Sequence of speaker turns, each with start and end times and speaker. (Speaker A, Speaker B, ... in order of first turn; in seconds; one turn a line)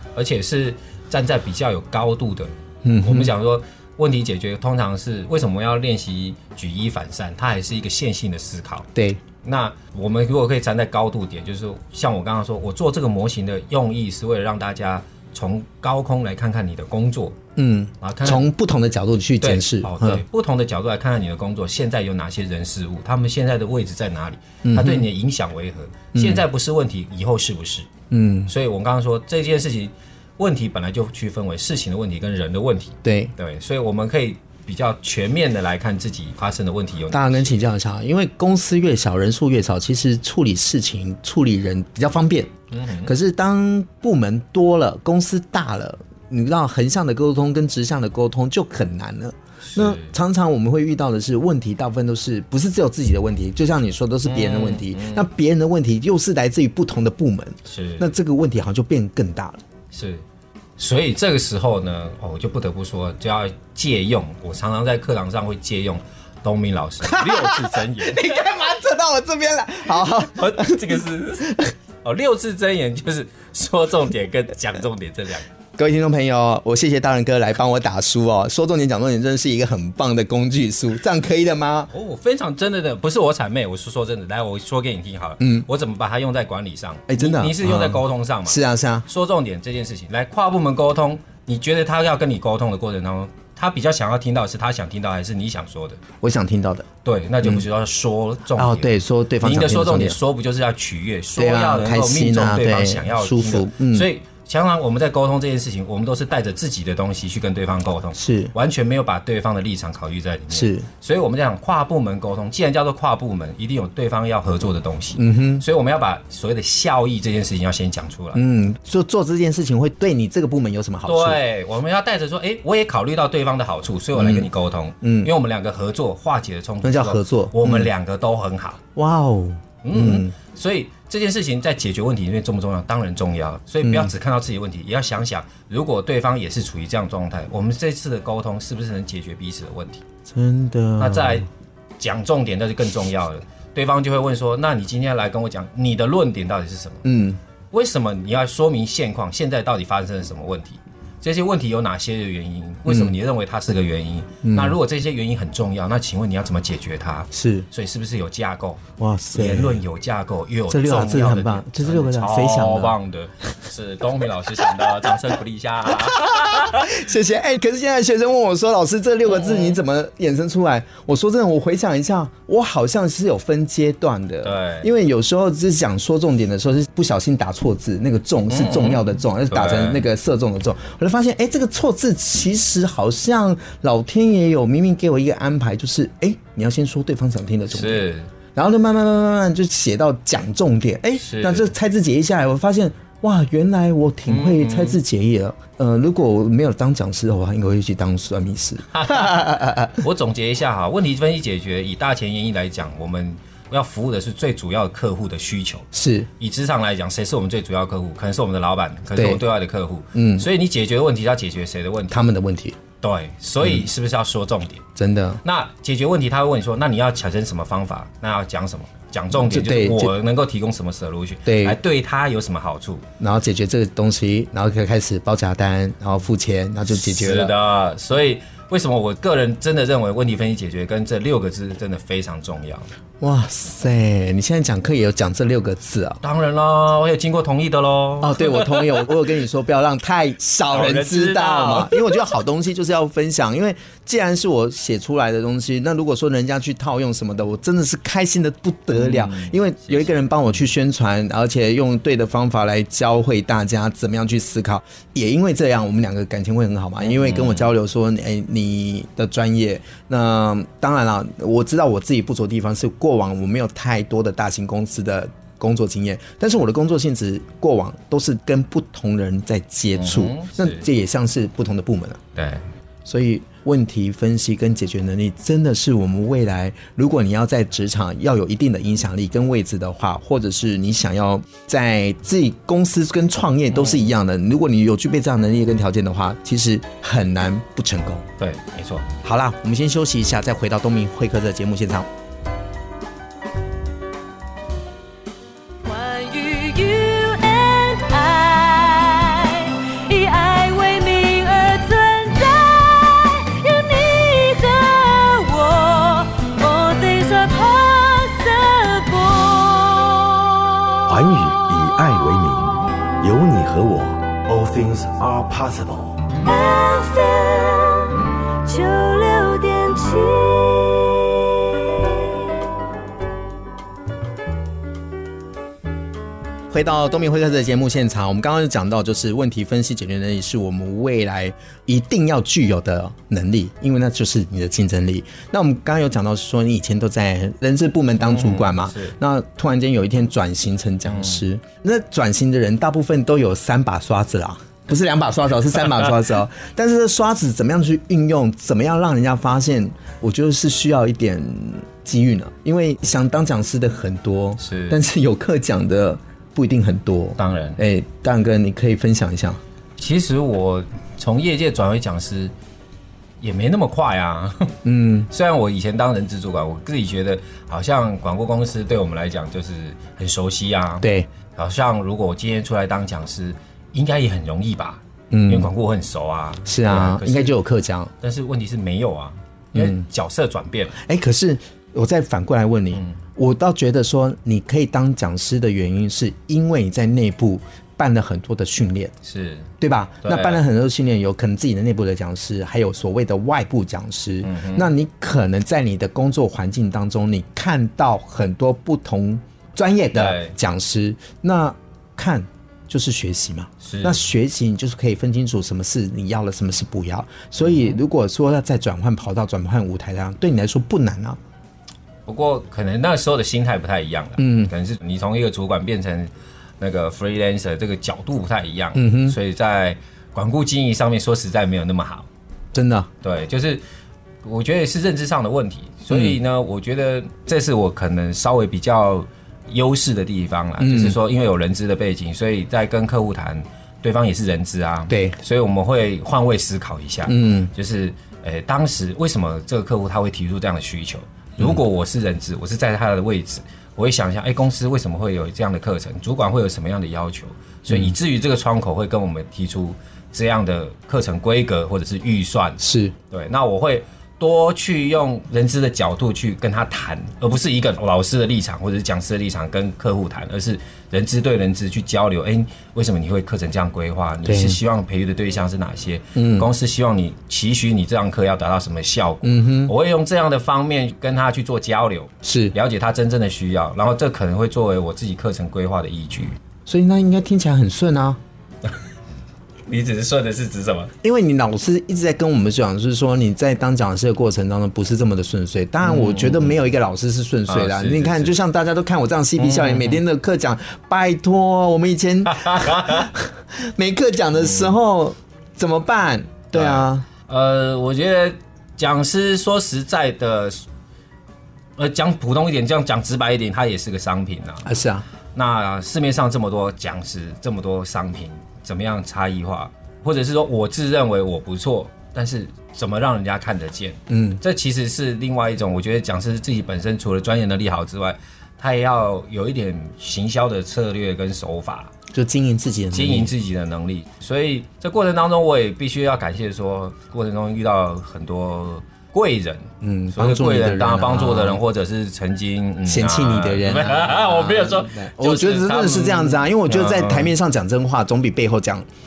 Speaker A: 0.1-8.9
Speaker B: 2.8-3.3
Speaker B: 8.9-9.2
Speaker A: 9.4-17.4
Speaker B: 17.6-20.2
Speaker A: 18.0-18.4
Speaker A: 19.4-27.9
Speaker B: 24.6-25.1
Speaker B: 26.1-26.4
Speaker B: 28.1-28.5
Speaker A: 28.5-37.6
Speaker B: 33.0-33.3
Speaker B: 37.1-42.5
Speaker A: 42.7-43.1
Speaker B: 43.0-59.6
Speaker A: 49.6-50.1
Speaker A: 54.2-55.3
Speaker A: 57.7-58.1
Speaker A: 59.9-60.2
Speaker A: 60.8-68.3
Speaker B: 67.0-71.7
Speaker A: 70.0-75.5
Speaker B: 75.8-81.9
Speaker A: 81.9-96.0
Speaker B: 85.4-85.7
Speaker B: 87.1-89.1
Speaker B: 96.2-96.9
Speaker A: 97.0-98.9
Speaker B: 98.5-100.2
Speaker A: 99.4-118.4
Speaker B: 101.4-104.1
Speaker B: 108.2-108.5
Speaker B: 110.5-110.9
Speaker B: 115.2-115.6
Speaker B: 118.3-121.4
Speaker A: 121.1-128.8
Speaker B: 124.2-124.5
Speaker B: 125.0-125.3
Speaker B: 126.8-127.9
Speaker B: 129.0-130.3
Speaker A: 129.8-140.0
Speaker B: 133.8-134.1
Speaker B: 140.3-141.4
Speaker A: 141.0-141.5
Speaker A: 142.0-147.1
Speaker B: 147.0-147.4
Speaker A: 147.7-158.8
Speaker B: 152.9-153.2
Speaker B: 154.4-154.8
Speaker B: 157.3-157.7
Speaker B: 159.0-159.8
Speaker A: 159.3-166.9
Speaker B: 160.7-162.9
Speaker B: 165.9-200.0
Speaker A: 169.3-169.8
Speaker A: 174.4-174.9
Speaker A: 178.5-180.1
Speaker A: 187.7-188.3
Speaker A: 191.2-191.7
Speaker A: 194.3-195.0
Speaker A: 198.9-205.9
Speaker B: 205.9-206.3
Speaker A: 206.4-212.2
Speaker B: 209.2-209.4
Speaker B: 210.1-210.5
Speaker B: 212.1-212.8
Speaker A: 213.0-214.8
Speaker B: 215.0-215.4
Speaker A: 215.4-223.1
Speaker B: 219.3-220.1
Speaker B: 221.5-221.8
Speaker B: 223.2-227.6
Speaker A: 226.9-232.9
Speaker B: 233.2-236.2
Speaker A: 236.2-239.0
Speaker B: 238.2-272.2
Speaker A: 240.7-242.2
Speaker A: 248.9-250.2
Speaker A: 257.0-257.7
Speaker A: 269.9-270.9
Speaker A: 272.4-272.6
Speaker B: 273.1-288.3
Speaker A: 283.7-284.1
Speaker A: 288.4-289.1
Speaker B: 289.2-292.1
Speaker C: 295.8-310.3
Speaker D: 311.1-316.3
Speaker C: 316.4-322.4
Speaker B: 326.7-359.6
Speaker A: 338.2-339.2
Speaker A: 341.1-341.4
Speaker A: 354.6-355.0
Speaker A: 357.4-357.8
Speaker A: 360.0-362.5
Speaker A: 363.4-364.8
Speaker B: 364.8-365.3
Speaker A: 365.3-377.6
Speaker B: 371.0-371.3
Speaker B: 375.3-375.7
Speaker B: 376.6-378.1
Speaker A: 378.2-381.0
Speaker B: 379.7-380.1
Speaker B: 381.0-389.1
Speaker A: 389.2-389.7
Speaker B: 389.8-411.4
Speaker A: 390.2-390.6
Speaker A: 394.4-394.9
Speaker A: 400.1-400.5
Speaker A: 403.8-404.2
Speaker A: 407.6-408.0
Speaker A: 412.3-422.3
Speaker B: 414.4-414.7
Speaker B: 418.9-419.4
Speaker B: 422.7-423.1
Speaker A: 423.2-423.8
Speaker A: 424.4-476.6
Speaker B: 426.1-426.4
Speaker B: 430.8-431.2
Speaker B: 435.1-435.4
Speaker B: 437.3-437.7
Speaker B: 447.9-448.1
Speaker B: 452.8-453.1
Speaker B: 464.4-464.8
Speaker B: 466.4-466.7
Speaker B: 469.4-469.9
Speaker B: 472.4-472.7
Speaker B: 476.9-478.4
Speaker A: 479.9-481.1
Speaker B: 481.2-497.3
Speaker A: 486.0-486.8
Speaker A: 487.7-488.6
Speaker A: 489.6-490.2
Speaker A: 492.5-493.3
Speaker A: 494.6-495.0
Speaker A: 496.7-500.8
Speaker A: 502.0-504.9
Speaker B: 504.9-505.2
Speaker A: 505.6-522.1
Speaker B: 514.3-514.6
Speaker B: 522.3-523.5
Speaker A: 523.1-537.5
Speaker B: 530.0-531.8
Speaker B: 533.1-539.1